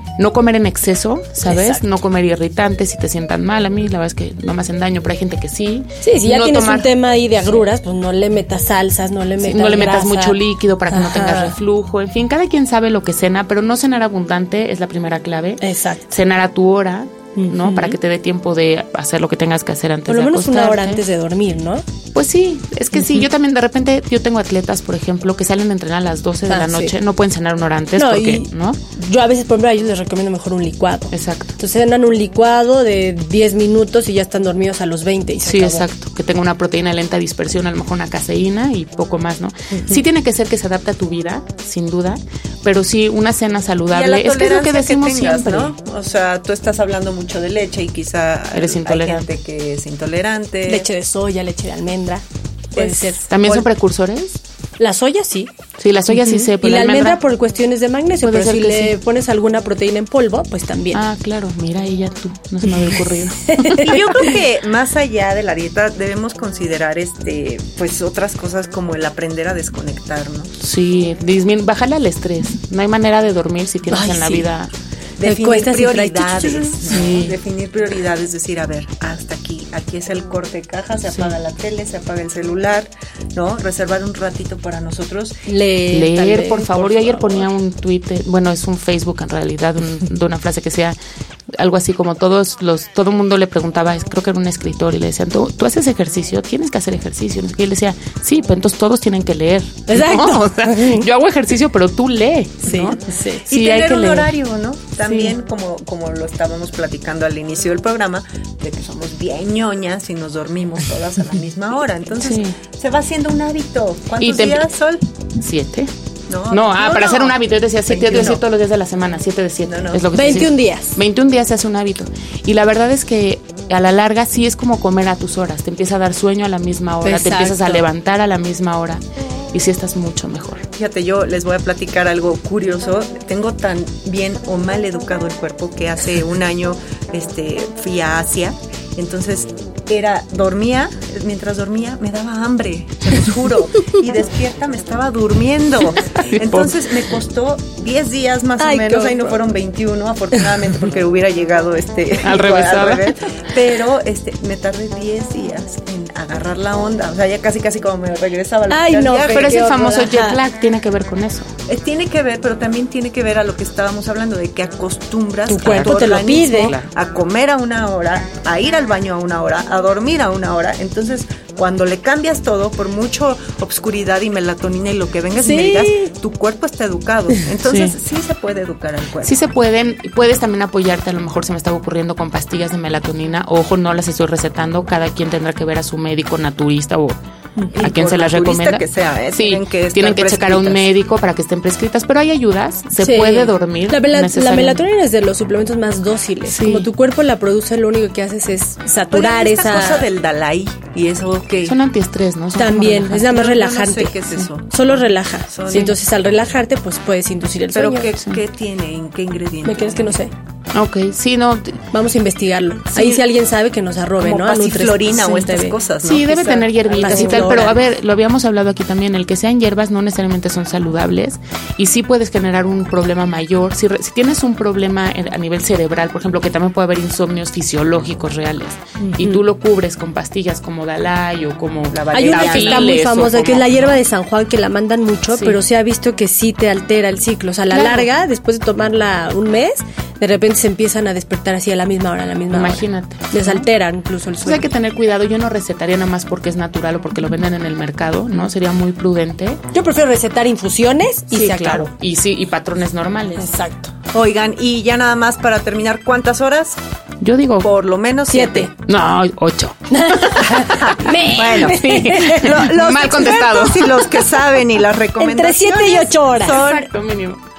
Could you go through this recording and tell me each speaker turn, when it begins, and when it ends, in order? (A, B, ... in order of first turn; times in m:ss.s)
0:00.2-0:06.9 A
0:01.5-0:01.8 B
0:06.0-0:10.4 B
0:09.4-0:21.0 A
0:10.9-0:11.6 B
0:15.6-0:16.1 B
0:17.4-0:18.0 B
0:20.1-0:21.8 B
0:22.2-0:28.8 A
0:23.0-0:23.2 B
0:26.5-0:26.9 B
0:28.0-0:35.9 B
0:31.1-0:31.6 A
0:35.4-0:45.7 A
0:43.9-0:50.9 C
0:48.5-0:49.3 A
0:50.7-0:53.6 B
0:52.8-0:53.2 C
0:53.3-0:54.4 A
0:54.8-0:55.5 B
0:55.8-0:57.2 A
0:56.1-1:01.0 B
0:58.2-0:59.0 A
1:00.9-1:03.9 A
1:03.0-1:04.2 B
1:03.8-1:10.6 C
1:10.6-1:14.7 A
1:13.9-1:14.5 B
1:15.2-1:25.3 C
1:15.2-1:16.9 B
1:16.9-1:17.4 A
1:25.5-1:27.5 B
1:25.9-1:31.0 A
1:31.6-1:43.0 A
1:39.9-1:41.0 B
1:42.7-1:43.4 B
1:43.5-1:55.0 C
1:43.5-1:44.3 A
1:45.0-1:45.3 A
1:52.2-1:52.6 A
1:54.2-1:54.7 A
1:55.4-1:55.9 A
1:56.3-1:58.4 C
1:56.5-2:10.6 A
1:59.7-2:00.1 C
2:00.2-2:01.0 B
2:07.0-2:07.9 B
2:10.8-2:39.6 C
2:26.0-2:26.7 A
2:28.6-2:29.4 B
2:32.2-2:33.2 A
2:38.7-2:40.4 B
2:39.3-2:41.5 A
2:41.7-2:59.4 C
2:45.5-2:46.7 B
2:45.6-2:46.9 A
2:55.4-2:56.1 B
2:57.6-2:58.0 A
2:59.2-3:07.2 A
3:07.7-3:10.9 C
3:07.8-3:14.8 A
3:13.0-3:20.1 B
3:16.4-3:16.9 A
3:19.1-3:21.8 C
3:21.7-3:23.4 A
3:22.6-3:24.2 B
3:23.3-3:26.0 C
3:24.7-3:28.1 B
3:27.7-3:30.2 C
3:29.6-3:30.3 B
3:30.7-3:31.8 A
3:31.9-3:35.8 B
3:32.9-3:33.2 C
3:34.2-3:37.8 C
3:36.0-3:54.0 A
3:37.0-3:37.8 B
3:49.0-3:49.4 B
3:51.9-3:53.0 C
3:52.1-4:04.7 B
3:55.3-3:55.6 A
3:57.7-3:58.1 A
4:02.5-4:03.7 A
4:04.4-4:09.6 A
4:09.7-4:11.9 B
4:11.3-4:13.5 A
4:13.4-4:13.9 B
4:14.1-4:16.8 C
4:17.2-4:17.7 A
4:17.6-4:18.7 C
4:18.3-4:18.7 B
4:18.9-4:24.1 A
4:19.9-4:22.5 B
4:20.7-4:26.9 C
4:25.2-4:26.6 B
4:26.5-4:27.4 A